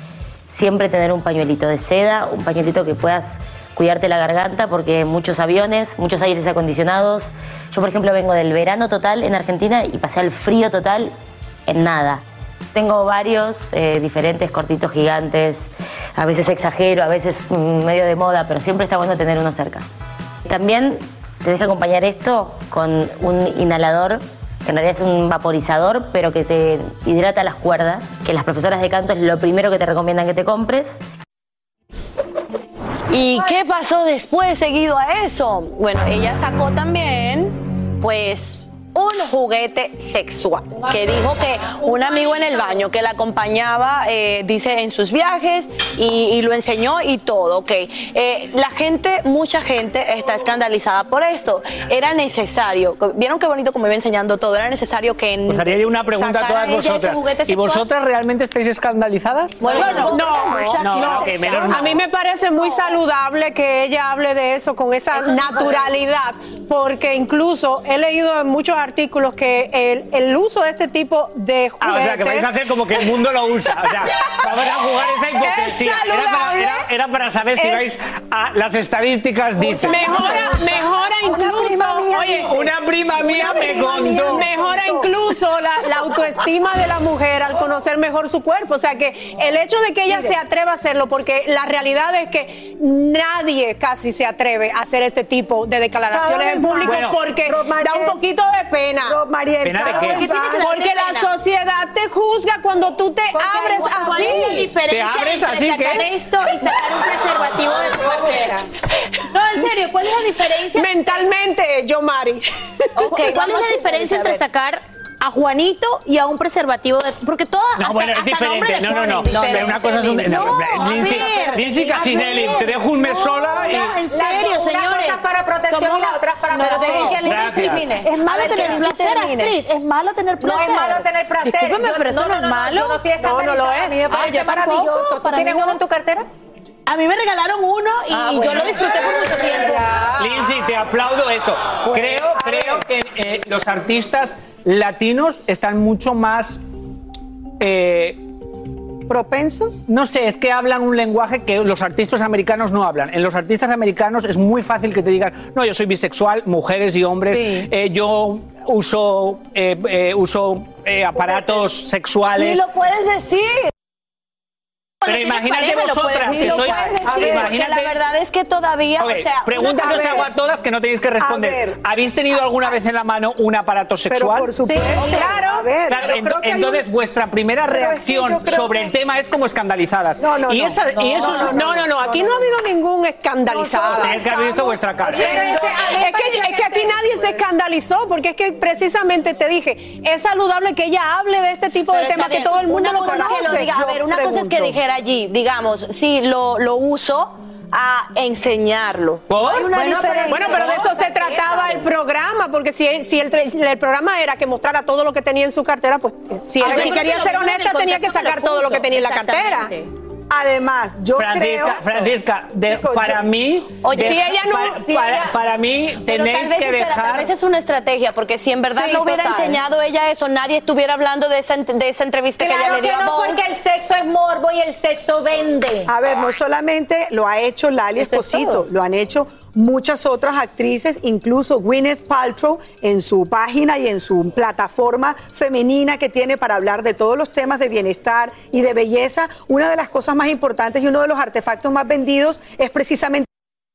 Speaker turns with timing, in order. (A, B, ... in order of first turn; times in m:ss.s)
0:00.5-0:11.1 A
0:11.7-0:12.2 A
0:12.7-0:19.8 A
0:20.4-0:31.0 A
0:33.1-0:57.9 B
0:41.7-0:42.8 C
0:55.5-1:00.0 D
0:59.6-1:01.9 B
0:59.8-1:00.8 E
0:59.8-1:02.0 F
1:00.8-1:02.0 D
1:01.6-1:12.5 E
1:11.8-1:20.6 D
1:15.4-1:16.8 E
1:19.6-1:25.1 F
1:19.8-1:22.5 E
1:22.3-1:24.5 D
1:23.6-1:39.2 E
1:30.1-1:30.4 F
1:36.1-1:38.2 F
1:36.8-1:37.2 D
1:39.0-1:40.8 F
1:39.6-1:40.3 D
1:39.9-1:44.7 E
1:40.0-1:41.3 G
1:43.3-1:44.4 C
1:43.7-1:48.5 G
1:44.8-1:46.1 D
1:49.3-1:51.3 G
1:50.8-1:52.9 E
1:53.0-1:54.4 B
1:53.1-2:15.8 G
1:57.8-2:04.0 D
1:59.3-2:01.3 B
2:02.0-2:02.4 C
2:04.1-2:08.1 C
2:06.6-2:09.6 B
2:07.2-2:08.0 D
2:10.4-2:16.3 C
2:13.2-2:14.0 E
2:16.9-2:20.0 G
2:20.2-2:26.6 D
2:21.9-2:22.8 F
2:27.6-2:28.2 D
2:29.1-2:29.9 F
2:29.9-2:42.6 D
2:37.3-2:37.7 C
2:41.2-2:41.6 F
2:42.3-2:43.7 B
2:45.0-2:47.1 G
2:45.0-2:48.0 D
2:46.3-2:50.3 B
2:47.1-2:47.5 F
2:49.0-2:54.5 D
2:49.8-2:50.3 F
2:51.2-2:51.8 F
2:54.1-2:56.9 F
2:54.6-2:55.0 C
2:55.0-2:55.7 E
2:55.8-3:01.7 D
2:57.7-2:58.9 F
3:00.2-3:02.6 F
3:01.0-3:01.4 C
3:01.3-3:04.2 E
3:03.4-3:06.0 F
3:03.8-3:05.4 D
3:05.0-3:07.0 C
3:05.3-3:13.7 E
3:11.9-3:20.9 B
3:12.8-3:14.8 F
3:19.3-3:19.7 D
3:19.7-3:21.9 C
3:20.3-3:29.7 E
3:26.6-3:29.9 G
3:30.3-3:32.1 F
3:31.1-3:37.3 D
3:32.6-3:33.3 F
3:33.8-3:34.2 B
3:33.9-3:34.8 E
3:34.8-3:35.3 C
3:36.1-3:43.4 B
3:38.8-3:39.6 C
3:42.4-3:45.9 C
3:45.9-4:03.3 F
3:48.0-3:48.6 C